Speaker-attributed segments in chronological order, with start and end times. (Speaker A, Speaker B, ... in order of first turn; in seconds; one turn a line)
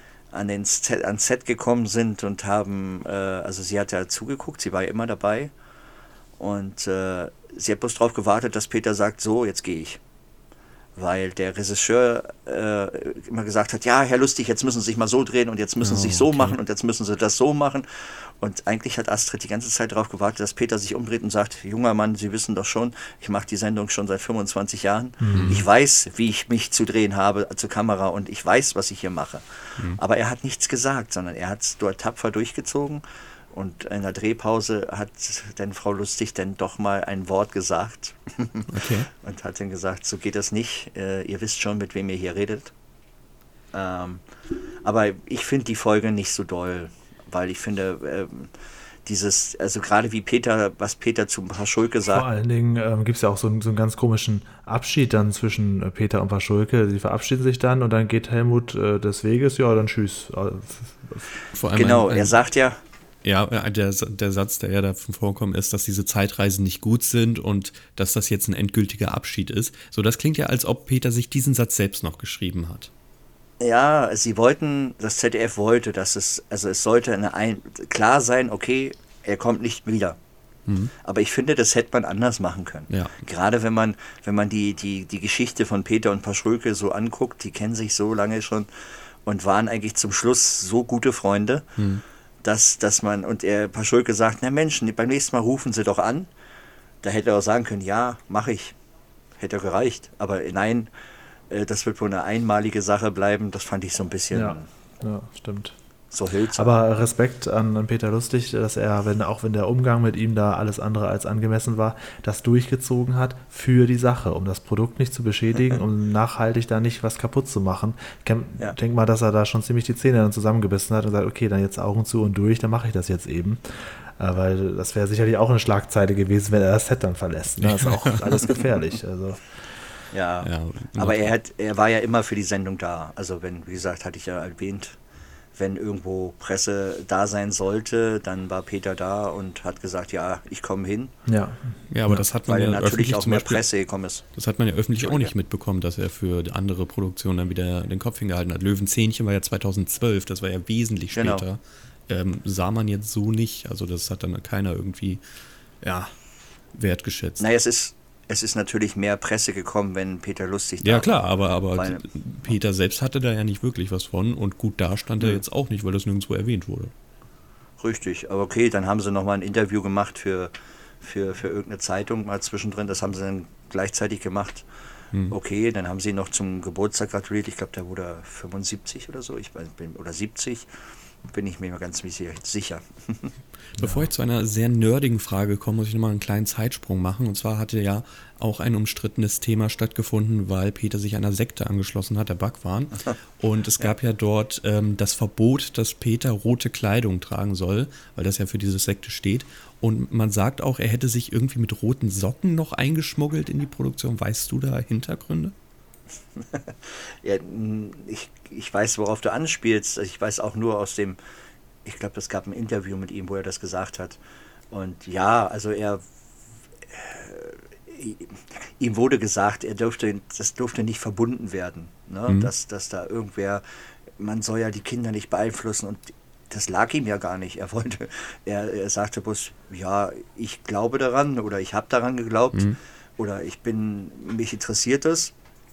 Speaker A: 0.3-5.5
Speaker A: 6.4-10.0
Speaker A: 10.9-42.7
Speaker B: 15.8-16.6
Speaker C: 25.2-25.6
Speaker B: 25.3-25.6
Speaker B: 38.7-39.1
Speaker A: 43.7-44.2
Speaker A: 44.8-48.5
Speaker A: 49.0-52.2
Speaker C: 52.1-61.2
Speaker B: 61.5-62.4
Speaker A: 61.7-62.8
Speaker B: 63.2-72.9
Speaker A: 73.6-80.2
Speaker B: 80.7-80.9
Speaker A: 81.0-88.7
Speaker B: 82.9-83.2
Speaker A: 89.2-91.7
Speaker B: 91.8-92.0
Speaker A: 92.4-96.3
Speaker A: 97.0-98.7
Speaker A: 99.4-100.9
Speaker A: 101.5-104.7
Speaker C: 104.3-105.8
Speaker A: 106.1-106.7
Speaker C: 106.5-129.4
Speaker B: 127.6-128.5
Speaker A: 130.1-135.0
Speaker B: 130.4-131.3
Speaker A: 135.6-141.1
Speaker C: 141.3-142.2
Speaker B: 141.9-143.6
Speaker A: 142.5-144.2
Speaker B: 144.3-155.2
Speaker A: 144.9-145.3
Speaker A: 151.1-151.4
Speaker B: 155.8-156.1
Speaker B: 156.7-157.4
Speaker A: 157.4-162.0
Speaker B: 160.8-166.9
Speaker A: 167.8-174.6
Speaker A: 175.3-180.7
Speaker A: 181.2-183.3
Speaker B: 183.7-205.5
Speaker C: 183.8-184.1
Speaker A: 206.4-211.2
Speaker A: 211.8-214.2
Speaker A: 214.7-216.0
Speaker A: 216.9-223.6
Speaker A: 224.2-235.3